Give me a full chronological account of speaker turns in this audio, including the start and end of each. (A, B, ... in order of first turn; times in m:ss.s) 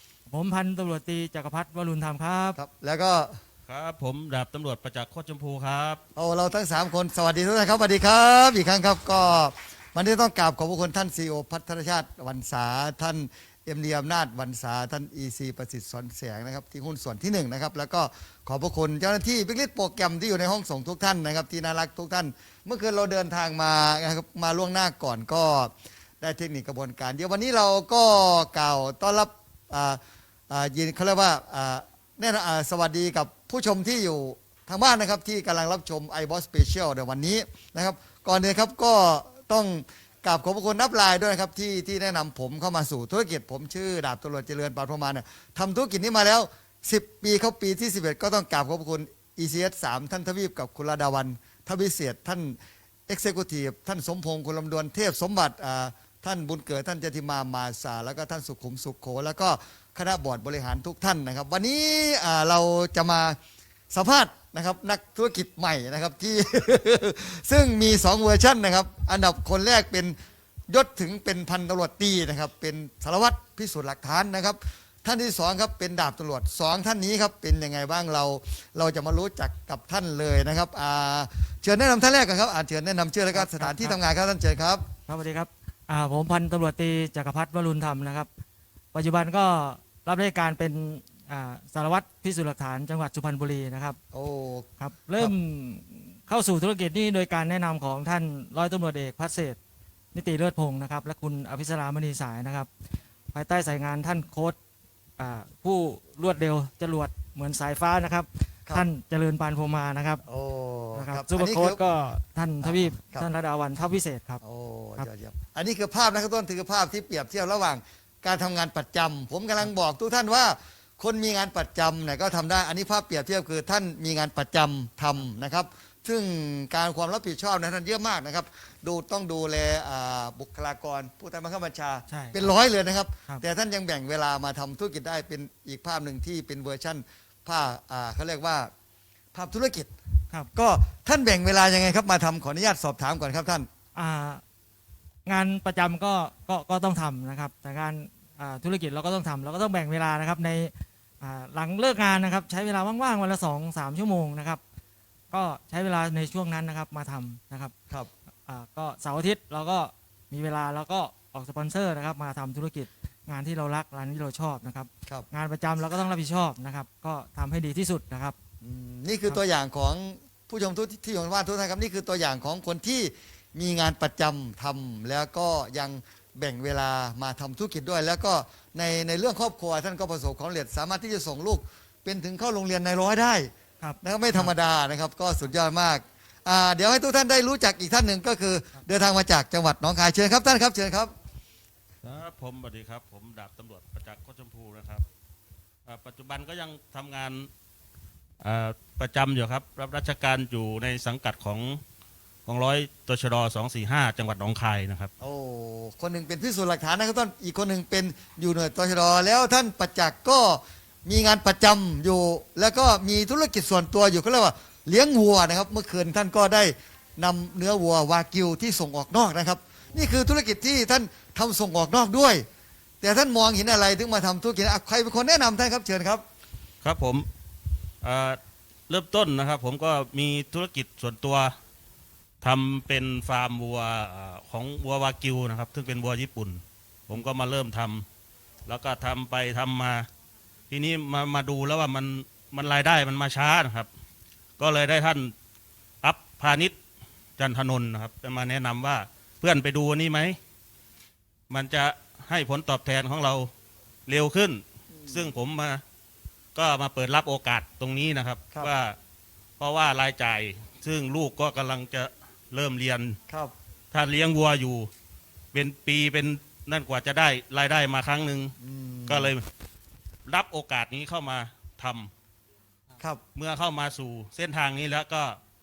0:00.3-0:02.6 A
0:02.6-0:03.4 B
0:03.7-0:06.0 C
0:06.2-0:30.0 B
0:30.5-0:52.6 B
0:53.1-1:03.4 B
1:03.9-1:10.2 B
1:10.7-1:24.8 B
1:23.3-1:24.0 A
1:25.1-1:28.3 A
1:28.9-1:34.0 A
1:34.1-1:35.3 B
1:34.8-1:39.6 A
1:40.1-1:42.7 A
1:43.3-1:44.6 A
1:45.2-1:50.2 A
1:50.3-1:51.8 B
1:51.0-1:54.4 A
1:52.6-1:53.3 B
1:54.4-2:18.7 B
2:12.1-2:12.5 A
2:19.3-2:19.9 B
2:20.5-2:23.7 B
2:24.0-2:24.4 A
2:25.2-2:34.6 A
2:35.3-2:37.7 A
2:38.5-2:48.4 A
2:48.6-3:03.5 B
3:03.8-3:04.5 A
3:04.0-3:11.1 B
3:12.0-3:15.0 C
3:15.9-3:17.5 C
3:18.4-3:21.8 C
3:22.5-3:25.1 C
3:25.2-3:42.4 B
3:43.0-3:46.2 B
3:46.8-3:47.3 C
3:48.0-3:51.5 C
3:52.4-3:58.1 C
3:58.7-4:00.1 C
4:00.7-4:03.9 C
4:04.6-4:05.3 C
4:06.0-4:06.8 C
4:07.4-4:10.4 C
4:11.5-4:13.5 C
4:14.1-4:15.8 C
4:14.9-4:15.3 B
4:16.6-4:19.0 C
4:19.6-4:23.2 C
4:23.9-4:24.9 C
4:25.5-4:28.5 C
4:28.6-4:29.3 B
4:29.1-4:29.5 C
4:30.3-4:32.1 C
4:33.4-4:35.4 C